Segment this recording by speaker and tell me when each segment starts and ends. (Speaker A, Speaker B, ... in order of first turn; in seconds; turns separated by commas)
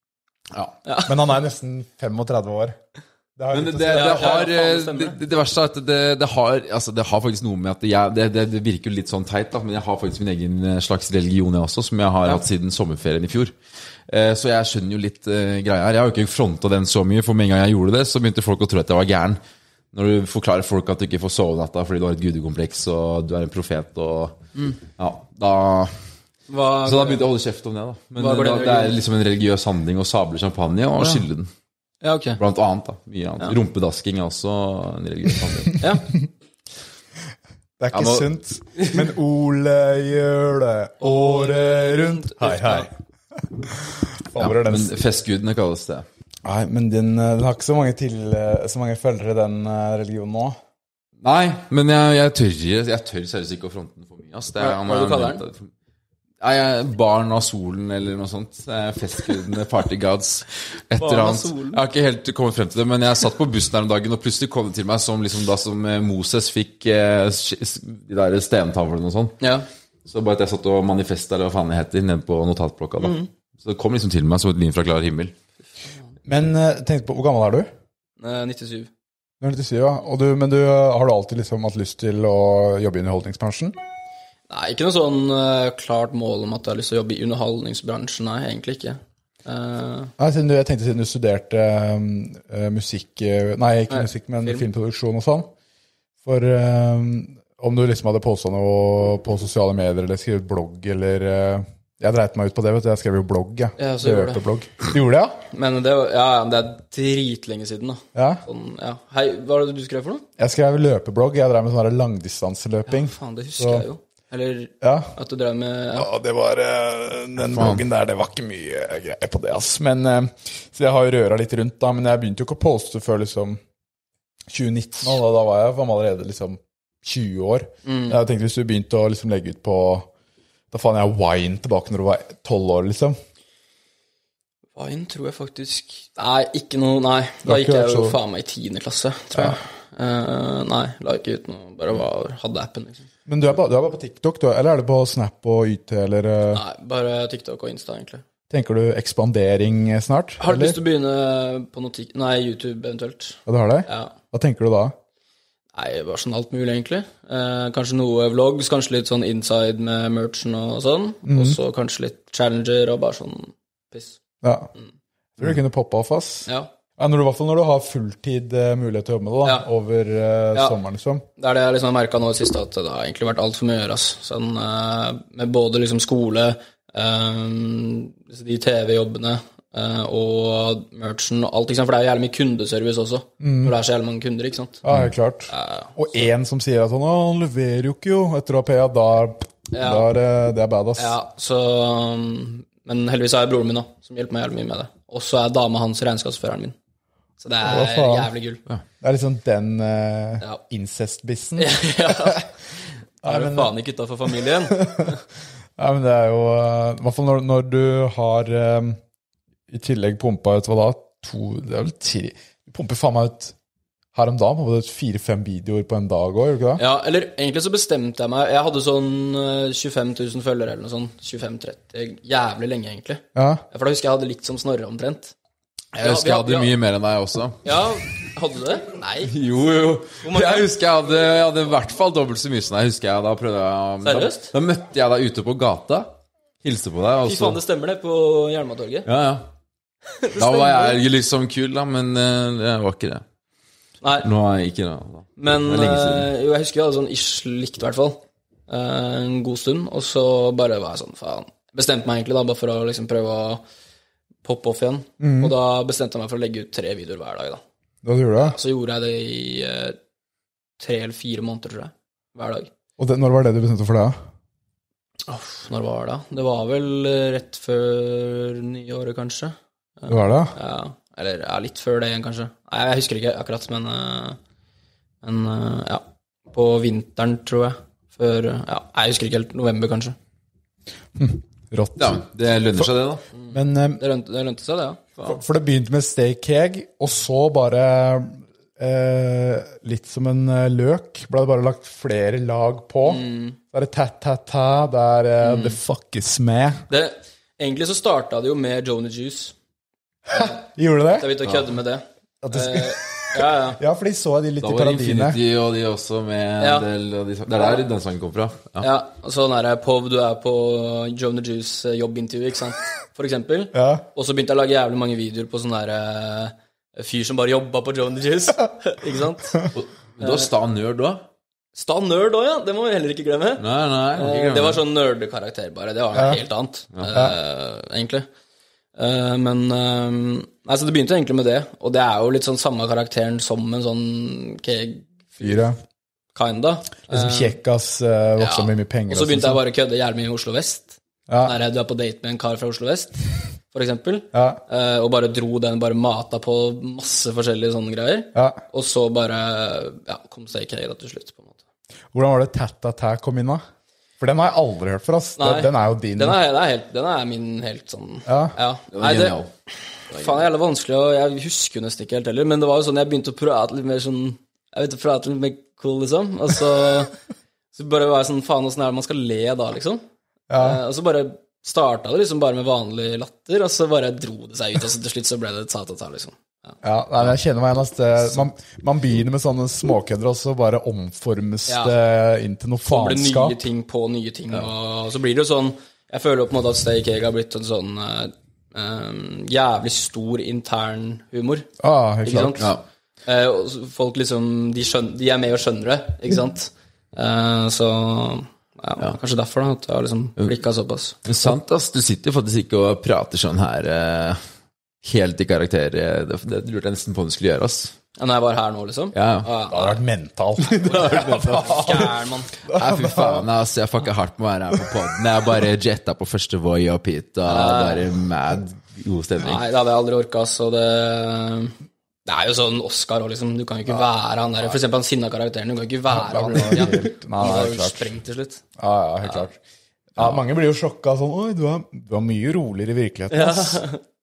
Speaker A: 0.5-0.8, Speaker B: 0.8-1.1, Speaker C: 1.1-2.8, Speaker C: 3.4-4.4, Speaker A: 3.5-13.5, Speaker B: 3.9-5.2, Speaker A: 14.1-19.4, Speaker A: 19.9-24.4, Speaker A: 24.9-26.0, Speaker B: 26.5-27.2, Speaker A: 26.8-31.5, Speaker B: 28.2-29.0, Speaker B: 32.0-32.4, Speaker A: 32.4-35.9, Speaker B: 35.8-36.1, Speaker C: 37.8-42.9, Speaker A: 37.9-39.0, Speaker B: 41.0-42.9, Speaker C: 43.6-44.9, Speaker A: 44.4-46.1, Speaker C: 46.4-50.6, Speaker A: 51.2-55.7, Speaker B: 54.6-55.4, Speaker A: 56.4-69.4, Speaker B: 61.0-61.8, Speaker B: 69.4-69.7, Speaker A: 70.0-75.3, Speaker B: 73.0-73.3, Speaker C: 76.2-77.7, Speaker B: 78.2-78.9, Speaker C: 79.4-83.8, Speaker B: 84.5-90.1, Speaker C: 90.2-95.5, Speaker B: 93.9-94.7, Speaker C: 96.2-105.4, Speaker B: 103.8-104.4, Speaker B: 105.5-110.2, Speaker C: 108.1-108.4, Speaker C: 110.4-113.8, Speaker B: 112.9-116.1, Speaker C: 114.8-115.1, Speaker C: 115.9-123.6, Speaker A: 117.5-117.8, Speaker C: 124.5-130.1, Speaker B: 127.8-128.2, Speaker C: 130.7-133.2, Speaker B: 134.8-143.1, Speaker C: 137.4-138.2, Speaker C: 143.2-146.6, Speaker B: 146.5-148.2, Speaker C: 148.5-150.8, Speaker B: 150.4-154.1, Speaker C: 153.4-154.9, Speaker B: 155.7-164.2, Speaker C: 161.3-161.6, Speaker C: 164.4-164.7, Speaker C: 165.4-171.2, Speaker B: 166.4-166.7, Speaker B: 171.4-184.8, Speaker C: 183.4-183.7, Speaker C: 184.8-191.2, Speaker B: 185.5-186.2, Speaker B: 189.7-190.1, Speaker B: 191.0-196.7, Speaker B: 197.4-198.6, Speaker C: 197.6-198.3, Speaker C: 199.0-202.4, Speaker B: 201.6-202.5, Speaker B: 203.2-205.2, Speaker C: 203.2-203.7, Speaker C: 204.7-205.2, Speaker C: 205.8-209.0, Speaker C: 209.7-213.5, Speaker C: 214.1-216.8, Speaker B: 216.8-225.3, Speaker C: 223.3-223.6, Speaker B: 225.9-226.7, Speaker A: 226.0-227.6, Speaker B: 227.6-229.3, Speaker A: 229.2-237.6, Speaker B: 230.2-230.7, Speaker B: 234.0-234.5, Speaker B: 237.2-239.1, Speaker A: 239.1-239.5, Speaker B: 240.1-241.0, Speaker A: 240.4-243.2, Speaker B: 244.0-244.3, Speaker A: 244.2-246.3, Speaker B: 245.4-253.6, Speaker B: 254.4-257.6, Speaker C: 255.2-255.5, Speaker C: 258.0-258.6, Speaker B: 258.4-260.0, Speaker B: 260.8-262.7, Speaker C: 263.0-264.1, Speaker B: 265.3-274.4, Speaker C: 270.1-270.5, Speaker B: 275.2-280.1, Speaker C: 281.1-282.2, Speaker A: 282.0-283.2, Speaker B: 283.4-285.1, Speaker C: 283.5-284.0, Speaker C: 285.2-296.8, Speaker B: 293.0-293.6, Speaker B: 295.4-295.8, Speaker B: 296.9-299.5, Speaker C: 300.3-301.4, Speaker B: 301.2-303.8, Speaker C: 302.4-305.4, Speaker A: 304.6-308.9, Speaker B: 306.6-306.9, Speaker B: 308.8-319.7, Speaker C: 313.7-314.0, Speaker A: 319.7-321.2, Speaker B: 320.2-320.5, Speaker B: 321.7-323.6, Speaker A: 323.6-324.8, Speaker B: 324.1-328.3, Speaker B: 328.9-335.7, Speaker C: 335.4-335.8, Speaker B: 336.3-337.6, Speaker C: 337.1-339.6, Speaker B: 338.4-351.6, Speaker C: 341.3-341.6, Speaker C: 344.3-344.6, Speaker C: 352.1-353.6, Speaker C: 354.2-356.4, Speaker B: 355.4-359.4, Speaker C: 358.2-358.6, Speaker A: 358.9-359.5, Speaker A: 360.1-360.4, Speaker B: 360.1-367.1, Speaker B: 367.7-370.0, Speaker C: 370.5-370.8, Speaker B: 370.5-376.8, Speaker C: 376.8-383.6, Speaker B: 381.7-381.9, Speaker B: 382.8-391.7, Speaker C: 391.8-392.7, Speaker B: 392.2-392.7, Speaker B: 393.2-401.2, Speaker A: 401.2-404.4, Speaker A: 405.0-407.9, Speaker B: 408.2-410.0, Speaker A: 409.1-409.5, Speaker C: 409.7-413.5, Speaker A: 410.6-412.1, Speaker B: 410.9-412.5, Speaker A: 412.7-419.7, Speaker B: 417.4-418.1, Speaker B: 419.4-428.6, Speaker C: 426.1-428.0, Speaker C: 428.8-429.6, Speaker C: 430.1-433.8, Speaker B: 433.3-434.0